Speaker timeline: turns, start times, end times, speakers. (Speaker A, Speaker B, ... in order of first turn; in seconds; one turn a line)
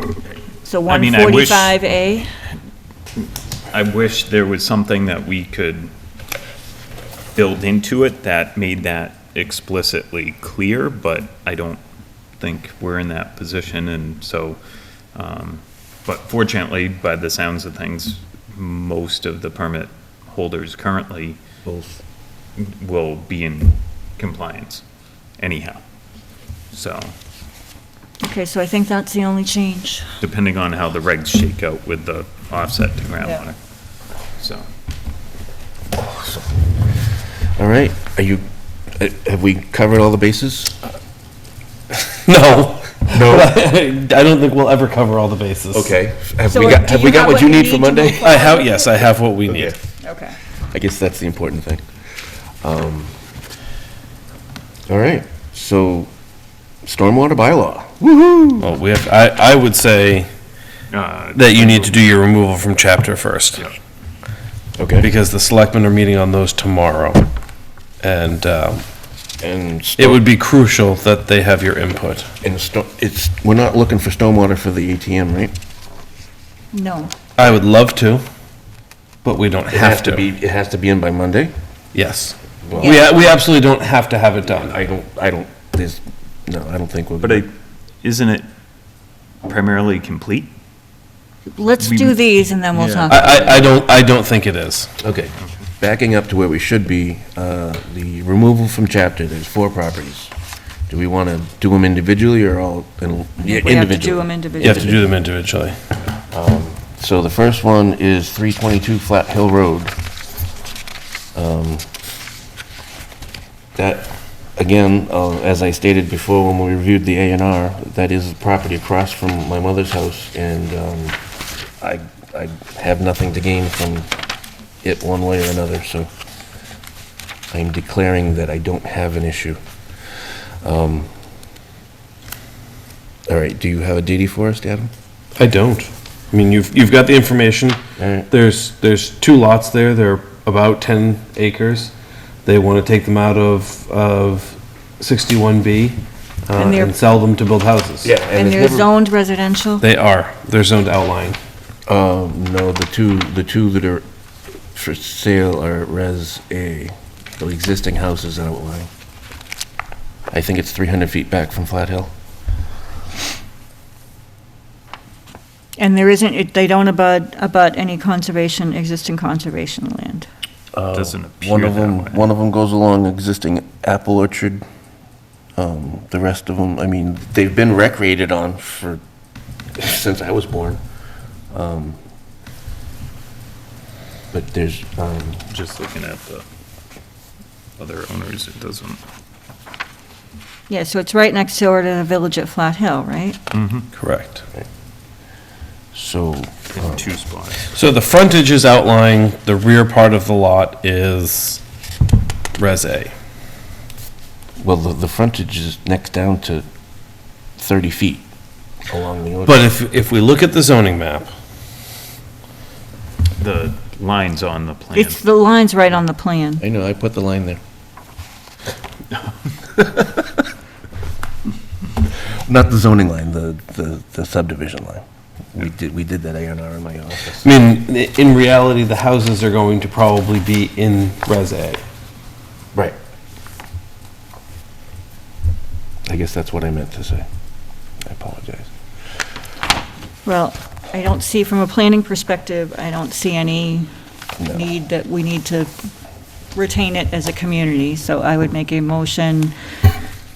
Speaker A: 0.7-2.3
Speaker B: 0.9-1.8
Speaker B: 3.7-5.9
Speaker B: 7.3-11.8
Speaker B: 12.4-14.6
Speaker B: 15.1-21.4
Speaker C: 21.6-22.0
Speaker B: 22.6-24.8
Speaker B: 25.4-25.8
Speaker B: 26.7-27.1
Speaker A: 28.2-30.1
Speaker B: 30.2-33.6
Speaker B: 34.4-34.6
Speaker C: 36.0-36.6
Speaker C: 37.6-40.8
Speaker D: 42.2-46.0
Speaker C: 43.1-43.6
Speaker C: 45.7-48.4
Speaker A: 46.5-49.1
Speaker D: 48.2-49.7
Speaker C: 49.5-49.8
Speaker A: 50.0-50.4
Speaker C: 50.7-51.9
Speaker C: 52.6-53.1
Speaker C: 54.9-56.1
Speaker C: 56.8-58.7
Speaker D: 58.6-60.3
Speaker B: 60.9-62.0
Speaker D: 61.4-63.6
Speaker C: 64.8-65.1
Speaker D: 65.0-67.3
Speaker D: 68.0-68.8
Speaker C: 69.4-70.3
Speaker D: 70.0-72.3
Speaker C: 72.4-75.5
Speaker A: 76.7-77.1
Speaker D: 77.4-78.2
Speaker D: 79.2-80.3
Speaker C: 79.7-81.5
Speaker D: 81.9-84.8
Speaker C: 82.6-83.1
Speaker A: 82.8-83.1
Speaker C: 84.5-87.5
Speaker B: 87.2-88.5
Speaker B: 89.4-90.5
Speaker A: 91.5-93.7
Speaker B: 91.8-92.2
Speaker B: 92.7-93.2
Speaker D: 93.1-94.9
Speaker C: 95.0-100.3
Speaker C: 100.9-105.1
Speaker A: 103.4-105.0
Speaker D: 104.6-105.8
Speaker C: 106.3-109.9
Speaker C: 111.3-111.9
Speaker C: 113.8-121.2
Speaker C: 121.8-124.1
Speaker C: 124.8-126.1
Speaker C: 127.5-131.1
Speaker C: 133.3-134.9
Speaker D: 135.4-141.9
Speaker C: 138.0-138.3
Speaker D: 142.4-148.1
Speaker A: 146.6-147.0
Speaker C: 148.0-148.9
Speaker A: 148.3-149.8
Speaker D: 149.8-151.4
Speaker C: 151.9-154.1
Speaker C: 154.7-158.9
Speaker C: 160.3-162.1
Speaker A: 165.8-170.3
Speaker C: 170.7-174.6
Speaker B: 170.9-172.2
Speaker C: 175.6-179.0
Speaker C: 179.8-180.8
Speaker C: 181.5-182.0
Speaker C: 184.3-185.4
Speaker B: 185.5-186.4
Speaker B: 187.8-189.0
Speaker A: 190.7-193.4
Speaker B: 193.5-193.9
Speaker D: 193.9-194.4
Speaker C: 195.9-197.1
Speaker B: 196.7-197.7
Speaker D: 197.7-201.6
Speaker D: 202.6-203.1
Speaker C: 204.6-206.7
Speaker C: 207.6-208.3
Speaker C: 208.9-209.6
Speaker D: 209.5-211.3
Speaker B: 213.4-215.2
Speaker A: 214.9-216.6
Speaker C: 216.6-217.6
Speaker C: 222.3-227.5
Speaker D: 227.4-231.8
Speaker C: 236.1-237.3
Speaker C: 238.0-238.7
Speaker A: 240.2-243.9
Speaker C: 244.4-244.7
Speaker A: 244.5-245.7
Speaker A: 246.6-249.5